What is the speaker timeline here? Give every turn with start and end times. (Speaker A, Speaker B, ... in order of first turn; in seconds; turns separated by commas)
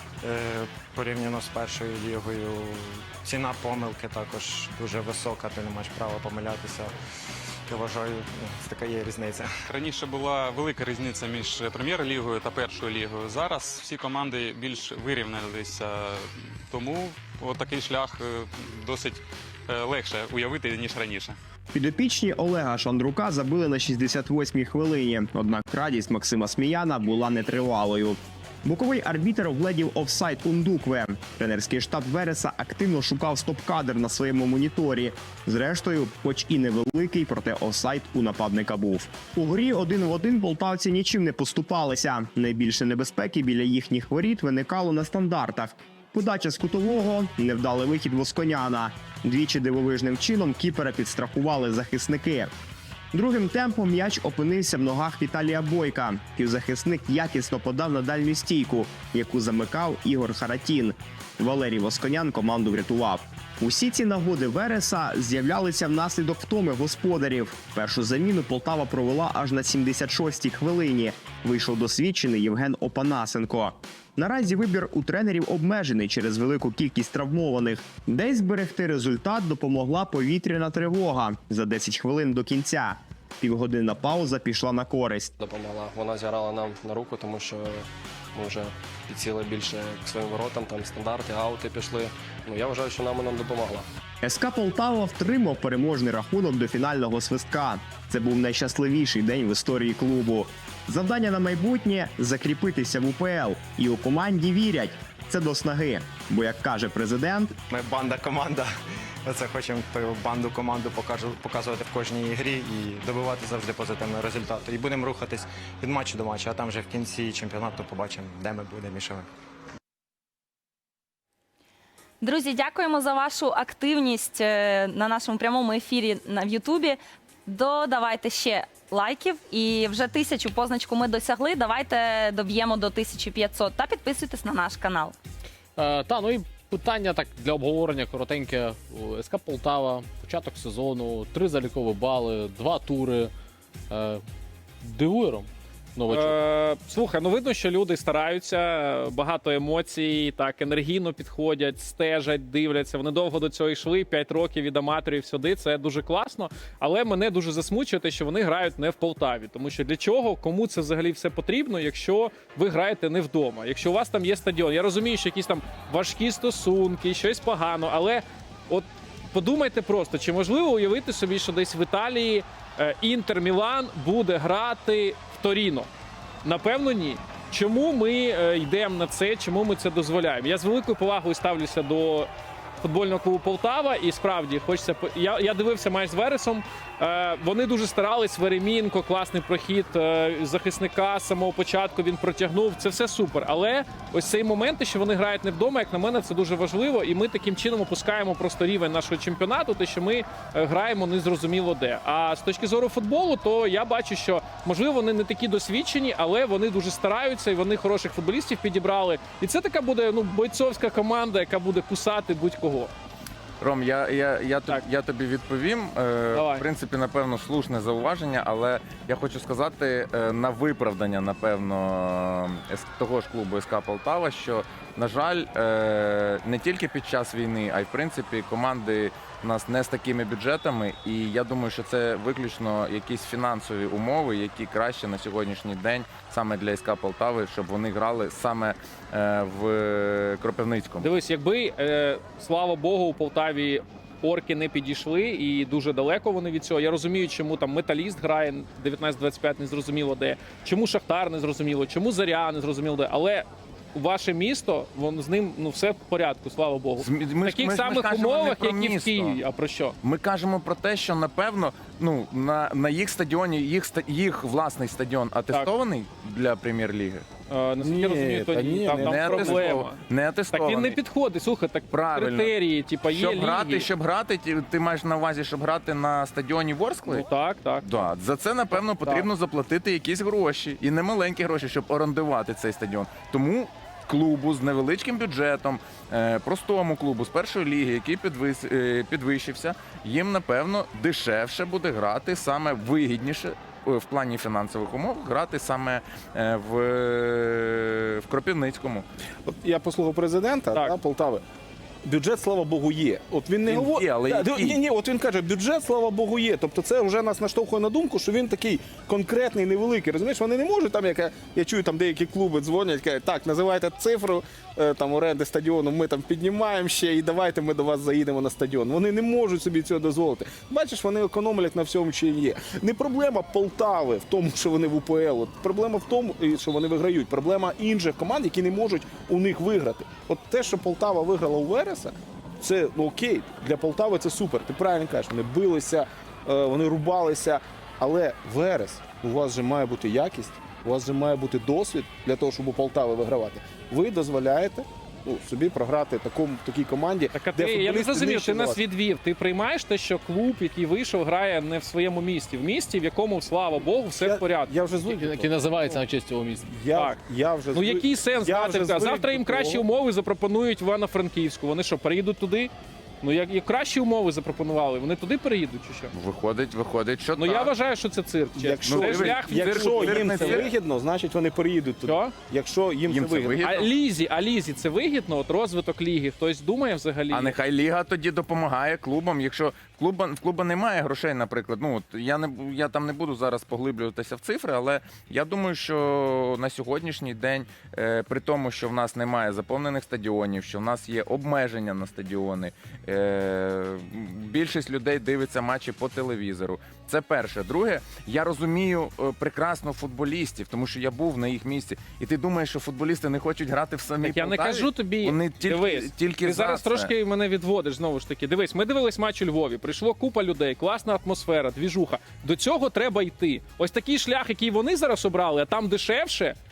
Speaker A: 0.2-6.9, Speaker A: 7.7-9.5, Speaker B: 9.7-21.4, Speaker C: 21.7-52.5, Speaker C: 53.1-85.3, Speaker D: 85.4-93.9, Speaker C: 94.2-107.5, Speaker A: 107.7-108.7, Speaker A: 109.2-119.3, Speaker E: 122.2-135.1, Speaker F: 135.8-143.3, Speaker F: 143.9-144.2, Speaker F: 144.8-146.4, Speaker G: 146.1-175.9, Speaker G: 176.4-182.3, Speaker G: 182.8-212.9, Speaker H: 213.6-241.1, Speaker G: 216.3-216.7, Speaker G: 241.0-260.0, Speaker H: 257.0-259.4, Speaker H: 260.0-267.2, Speaker G: 267.5-270.0, Speaker I: 267.8-269.8, Speaker H: 268.9-271.0, Speaker G: 270.5-273.9, Speaker H: 271.9-272.5, Speaker H: 273.1-277.3, Speaker G: 277.1-277.9, Speaker H: 277.8-299.1, Speaker G: 278.8-279.3, Speaker I: 299.5-301.4, Speaker I: 302.0-348.8, Speaker H: 303.6-304.8, Speaker G: 347.3-354.7, Speaker I: 354.2-356.0, Speaker F: 355.1-356.7, Speaker I: 356.6-359.8, Speaker G: 357.7-366.1, Speaker H: 366.1-367.7, Speaker G: 367.4-370.6, Speaker I: 368.5-373.6, Speaker H: 368.8-370.7, Speaker G: 372.1-372.3, Speaker H: 373.1-373.9, Speaker G: 373.6-377.5, Speaker H: 377.3-407.1, Speaker G: 404.2-416.6